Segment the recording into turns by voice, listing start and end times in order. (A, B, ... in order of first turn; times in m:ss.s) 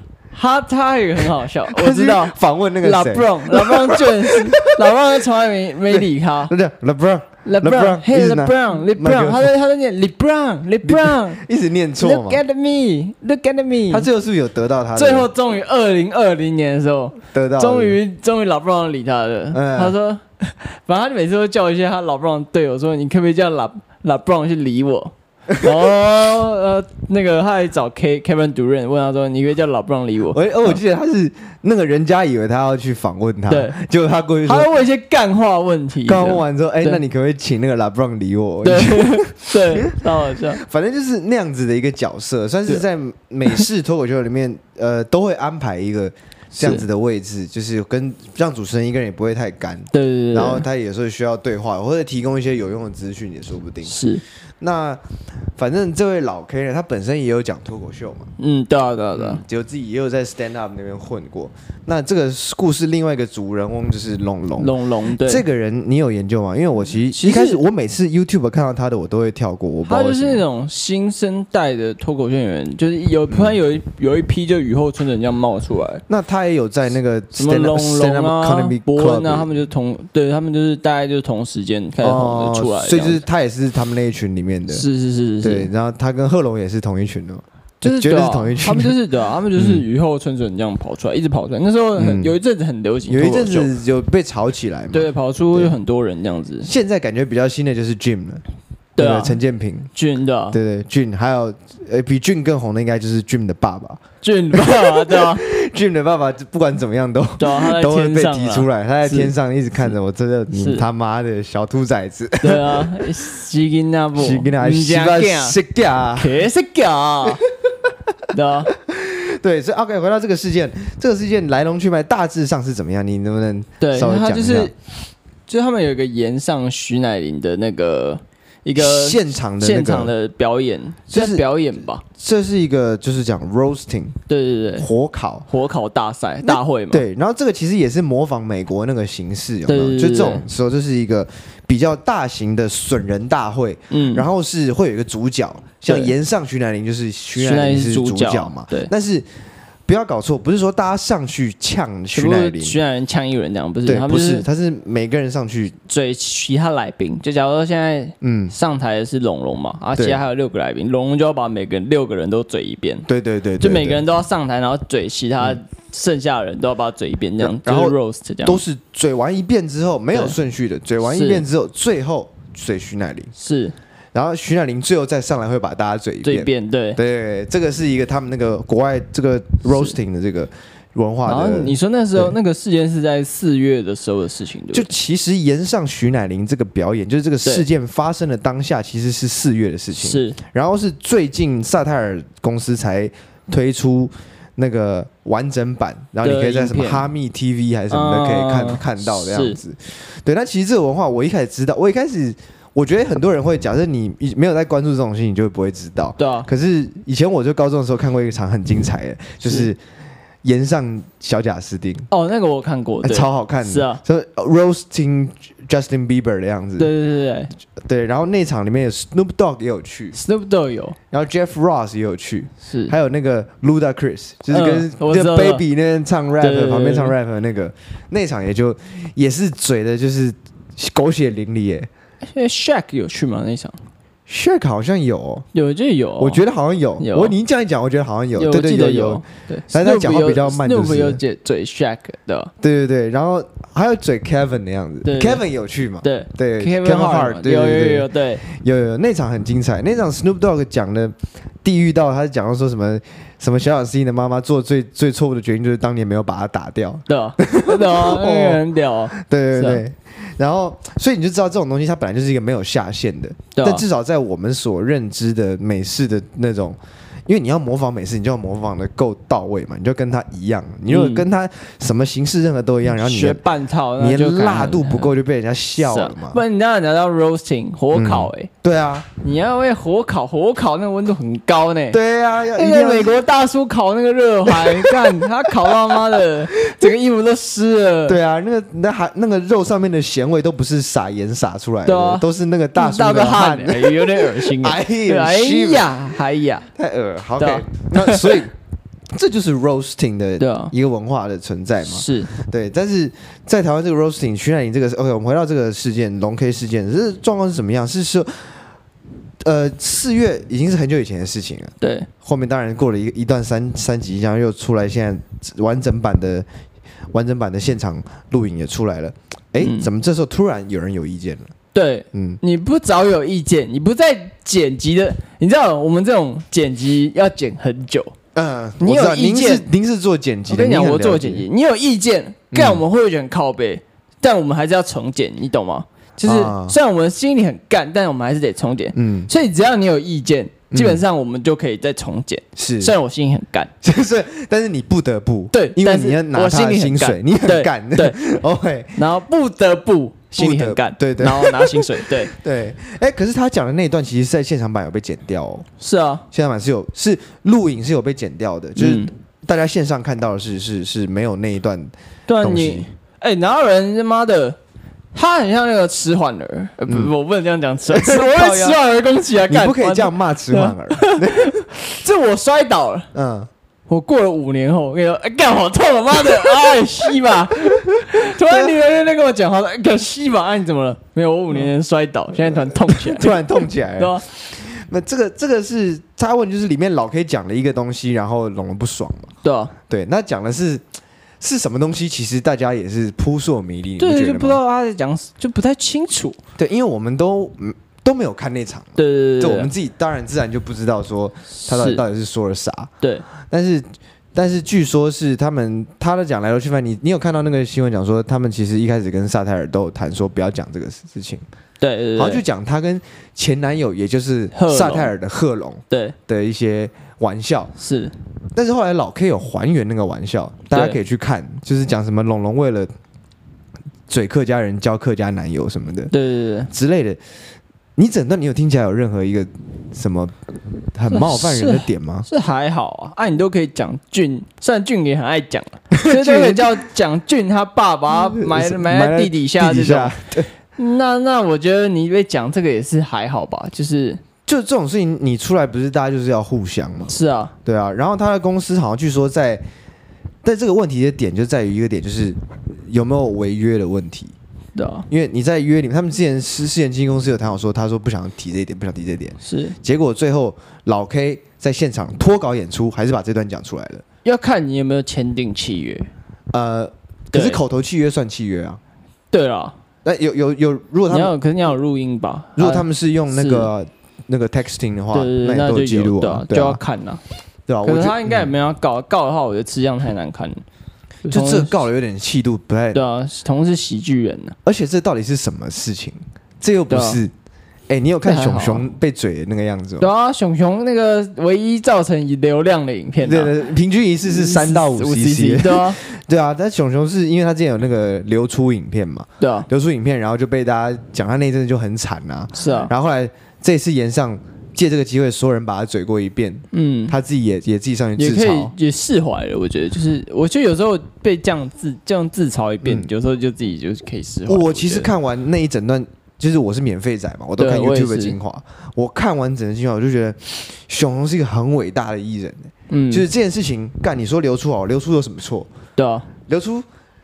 0:00.3-0:06.5 A
0:01.7-0:04.8 B
0:05.9-0:09.5 B
0:07.4-0:11.4 A
0:10.8-0:12.4 B
0:12.0-0:14.1 A
0:13.9-0:15.3 B
0:14.9-0:30.8 A
0:17.3-0:18.0 B
0:19.5-0:19.9 B
0:25.5-0:25.7 B
0:30.3-0:34.7 B
0:33.5-0:33.8 A
0:34.4-0:37.0 A
0:36.0-0:54.1 B
0:38.6-0:40.6 A
0:46.6-0:46.8 A
0:49.9-0:50.6 A
0:53.8-0:54.2 A
0:54.6-0:55.0 B
0:55.6-0:58.3 B
0:58.4-0:59.4 A
0:59.1-1:10.4 B
1:04.6-1:05.4 A
1:07.1-1:07.6 A
1:09.8-1:16.0 A
1:13.3-1:13.6 B
1:16.1-1:19.5 B
1:17.3-1:23.2 A
1:22.0-1:24.8 B
1:24.7-1:25.7 A
1:25.4-1:28.9 B
1:27.8-1:33.7 A
1:29.6-1:29.8 B
1:32.0-1:32.3 B
1:33.1-1:35.7 B
1:34.9-1:36.7 A
1:36.6-1:38.4 B
1:39.0-1:39.4 A
1:39.0-1:39.9 B
1:39.9-1:40.6 A
1:40.5-1:44.0 B
1:44.2-1:45.4 A
1:44.5-1:53.1 B
1:47.4-1:49.3 A
1:50.5-1:50.8 A
1:52.4-1:55.6 A
1:54.2-1:56.4 B
1:56.2-1:57.4 A
1:58.3-1:58.7 A
1:58.8-2:04.7 B
2:03.8-2:04.7 A
2:05.5-2:12.0 A
2:08.8-2:10.1 B
2:11.1-2:11.4 B
2:12.0-2:14.2 B
2:14.3-2:14.9 A
2:14.8-2:15.5 B
2:15.5-2:17.0 A
2:16.4-2:29.3 B
2:19.7-2:20.4 A
2:23.9-2:24.2 A
2:25.9-2:26.1 A
2:27.4-2:28.9 A
2:29.9-2:32.8 B
2:32.1-2:34.4 A
2:33.8-2:35.8 B
2:35.9-2:43.1 A
2:38.2-2:38.5 B
2:39.9-2:40.2 B
2:43.1-2:44.0 B
2:43.6-2:48.6 A
2:47.4-2:53.3 B
2:51.0-2:51.4 A
2:53.3-2:53.7 A
2:54.1-3:02.3 B
2:56.2-2:57.0 A
2:59.7-3:00.0 A
3:01.2-3:04.9 A
3:04.7-3:29.8 B
3:09.9-3:10.4 A
3:16.2-3:17.1 A
3:17.9-3:19.6 A
3:26.2-3:26.5 A
3:30.4-3:32.1 B
3:32.1-3:34.0 A
3:33.0-3:36.9 B
3:36.8-3:37.5 A
3:37.8-3:40.2 B
3:40.1-3:41.0 A
3:41.1-3:51.9 B
3:42.7-3:42.9 A
3:44.5-3:45.6 A
3:46.4-3:47.1 A
3:52.3-3:53.8 A
3:54.3-3:55.4 B
3:55.5-3:56.4 A
3:56.2-4:01.2 B
3:57.0-3:57.3 A
3:58.3-4:02.5 A
4:02.6-4:33.4 B
4:05.0-4:05.4 A
4:06.0-4:08.4 A
4:17.1-4:19.8 A
4:23.5-4:23.8 A
4:30.9-4:31.3 A
4:32.9-4:35.1 A
4:34.0-4:36.4 B
4:35.8-4:38.5 A
4:37.9-4:39.1 B
4:39.2-4:42.0 A
4:41.9-4:43.2 B
4:42.5-4:48.2 A
4:44.5-4:46.9 B
4:48.1-4:56.1 B
4:51.8-4:56.7 A
4:56.7-4:58.5 B
4:57.4-4:58.4 A
4:59.1-5:08.6 B
5:00.4-5:00.7 A
5:01.8-5:02.3 A
5:09.4-5:16.4 B
5:11.8-5:12.1 A
5:17.1-5:21.5 B
5:19.6-5:19.9 A
5:21.7-5:28.1 A
5:22.1-5:22.4 B
5:28.3-5:31.4 B
5:28.8-5:29.6 A
5:30.5-5:43.7 A
5:32.5-5:32.8 B
5:36.2-5:36.8 B
5:39.0-5:39.3 B
5:40.7-5:41.0 B
5:42.6-5:42.9 B
5:43.8-5:49.0 B
5:45.5-5:48.2 A
5:48.9-5:52.3 A
5:50.4-5:55.7 B
5:55.8-5:56.2 A
5:56.3-6:02.8 B
5:58.8-5:59.1 A
6:02.3-6:04.6 A
6:05.1-6:13.1 A
6:07.9-6:08.8 B
6:09.5-6:11.6 B
6:13.1-6:13.5 B
6:13.9-6:24.2 A
6:17.6-6:18.7 B
6:22.3-6:29.3 B
6:29.4-6:29.7 A
6:29.9-6:30.8 B
6:31.4-6:34.6 B
6:34.0-6:36.4 A
6:36.6-6:42.9 B
6:39.0-6:39.7 A
6:41.6-6:42.0 A
6:43.4-6:51.4 B
6:51.8-6:52.4 A
6:52.2-6:57.7 B
6:54.5-6:55.1 A
6:55.9-6:56.2 A
6:57.8-6:58.1 A
6:58.5-7:02.9 B
7:00.7-7:01.0 A
7:04.1-7:06.1 B
7:06.1-7:06.7 A
7:06.7-7:07.2 B
7:08.0-7:12.3 B
7:11.1-7:20.2 A
7:15.9-7:16.8 B
7:18.1-7:20.5 B
7:20.8-7:24.2 A
7:24.4-7:27.1 B
7:27.1-7:27.5 A
7:27.6-7:29.6 B
7:30.4-7:34.3 B
7:34.7-7:35.1 A
7:35.1-7:44.0 B
7:39.4-7:39.8 A
7:44.2-7:46.1 A
7:46.5-7:48.8 B
7:47.3-7:47.6 A
7:49.3-7:49.8 A
7:50.0-7:51.3 B
7:51.1-7:53.7 A
7:52.6-7:56.8 B
7:55.1-7:57.2 A
7:57.7-7:58.5 B
7:57.8-8:00.6 A
8:01.2-8:01.8 A
8:01.3-8:03.0 B
8:02.9-8:04.6 A
8:04.6-8:07.3 B
8:06.9-8:07.2 A
8:07.9-8:10.1 B
8:08.2-8:08.9 A
8:10.0-8:13.5 A
8:13.2-8:28.7 B
8:14.2-8:16.0 A
8:19.4-8:19.7 A
8:22.5-8:22.9 A
8:26.7-8:27.1 A
8:28.2-8:35.1 A
8:32.8-8:33.1 B
8:34.5-8:45.7 B
8:37.6-8:38.4 A
8:42.9-8:43.2 A
8:46.0-8:46.3 A
8:46.5-8:46.8 B